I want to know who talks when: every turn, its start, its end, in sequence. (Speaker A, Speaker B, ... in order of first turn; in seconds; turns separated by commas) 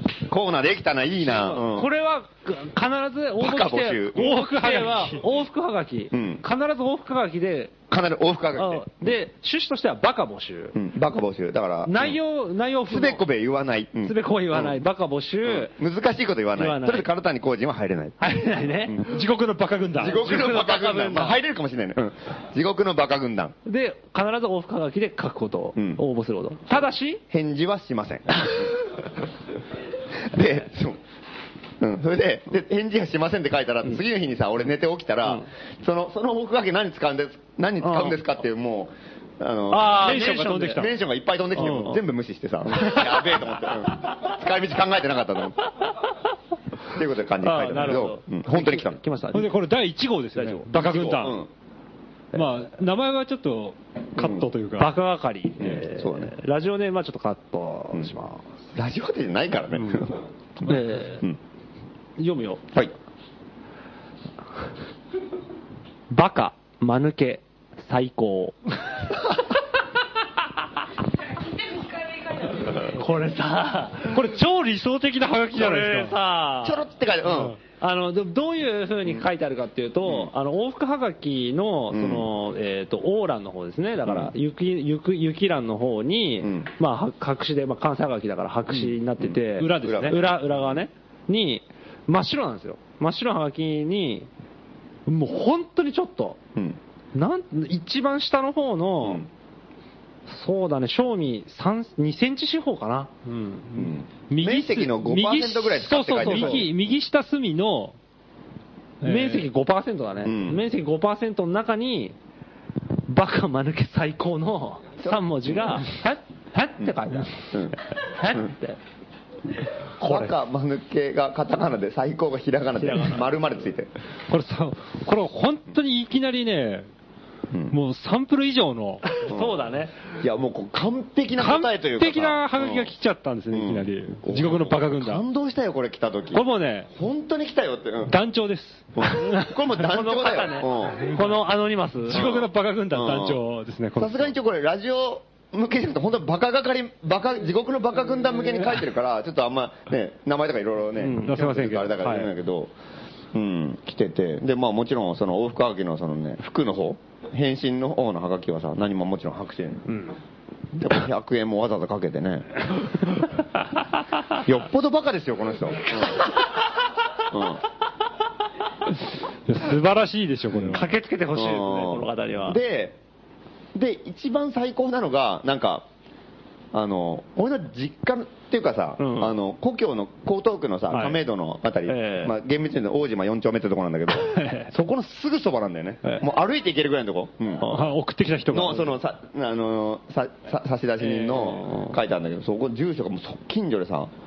Speaker A: 0.2-1.9, Speaker B: 1.2-7.7, Speaker A: 3.4-4.3, Speaker C: 4.2-5.2, Speaker A: 6.1-6.4, Speaker A: 7.9-9.1, Speaker B: 8.6-10.8, Speaker A: 10.7-12.2, Speaker B: 11.8-13.2, Speaker A: 12.9-14.8, Speaker B: 14.0-15.7, Speaker A: 15.4-19.1, Speaker B: 16.6-17.1, Speaker B: 18.2-19.0, Speaker C: 19.1-20.4, Speaker A: 19.9-23.6, Speaker B: 20.0-21.4, Speaker B: 23.6-27.2, Speaker A: 25.8-26.0, Speaker A: 27.3-29.0, Speaker A: 30.1-31.0, Speaker A: 31.8-45.6, Speaker B: 37.8-38.2, Speaker B: 39.7-40.9, Speaker C: 39.9-40.9, Speaker B: 41.5-42.0, Speaker A: 46.9-49.0, Speaker B: 47.4-49.5, Speaker C: 49.3-51.4, Speaker B: 50.4-50.7, Speaker A: 50.7-51.5, Speaker C: 52.3-54.9, Speaker A: 54.2-54.5, Speaker B: 54.8-58.5, Speaker A: 55.6-56.3, Speaker A: 58.7-61.4, Speaker B: 60.6-61.3, Speaker B: 62.2-62.6, Speaker B: 66.1-68.6, Speaker B: 72.6-74.2, Speaker C: 74.1-76.2, Speaker B: 75.5-76.8, Speaker A: 76.6-77.6, Speaker B: 77.8-94.3, Speaker A: 80.0-80.3, Speaker A: 81.9-82.3, Speaker A: 84.0-84.3, Speaker A: 86.4-86.7, Speaker A: 89.2-90.8, Speaker C: 89.6-90.2, Speaker B: 95.0-96.4, Speaker B: 97.1-99.3, Speaker A: 99.0-99.3, Speaker B: 100.3-103.1, Speaker C: 103.2-108.0, Speaker A: 103.8-106.7, Speaker B: 105.9-106.7, Speaker C: 109.0-109.5, Speaker B: 109.0-112.1, Speaker A: 110.2-110.6, Speaker B: 113.1-118.8, Speaker A: 115.0-115.8, Speaker A: 117.5-118.5, Speaker A: 120.0-123.9, Speaker B: 122.8-123.3, Speaker C: 124.3-126.9, Speaker C: 127.7-129.1, Speaker B: 129.1-129.9, Speaker A: 129.2-132.9, Speaker C: 131.4-135.2, Speaker A: 133.5-138.2, Speaker C: 136.3-136.9, Speaker C: 138.1-139.5, Speaker A: 139.0-141.1, Speaker B: 139.7-142.2, Speaker C: 142.1-144.3, Speaker A: 142.1-143.4, Speaker A: 143.9-152.7, Speaker B: 151.0-151.4, Speaker C: 151.3-152.3, Speaker A: 153.3-159.9, Speaker A: 160.7-163.2, Speaker A: 164.3-166.4, Speaker A: 167.1-167.6, Speaker C: 169.5-170.9, Speaker B: 170.7-172.6, Speaker A: 171.3-173.0, Speaker A: 173.7-175.9, Speaker A: 176.7-187.7, Speaker B: 179.0-179.4, Speaker B: 181.9-182.3, Speaker B: 184.3-184.7, Speaker C: 187.6-188.9, Speaker A: 188.5-194.1, Speaker B: 191.0-191.9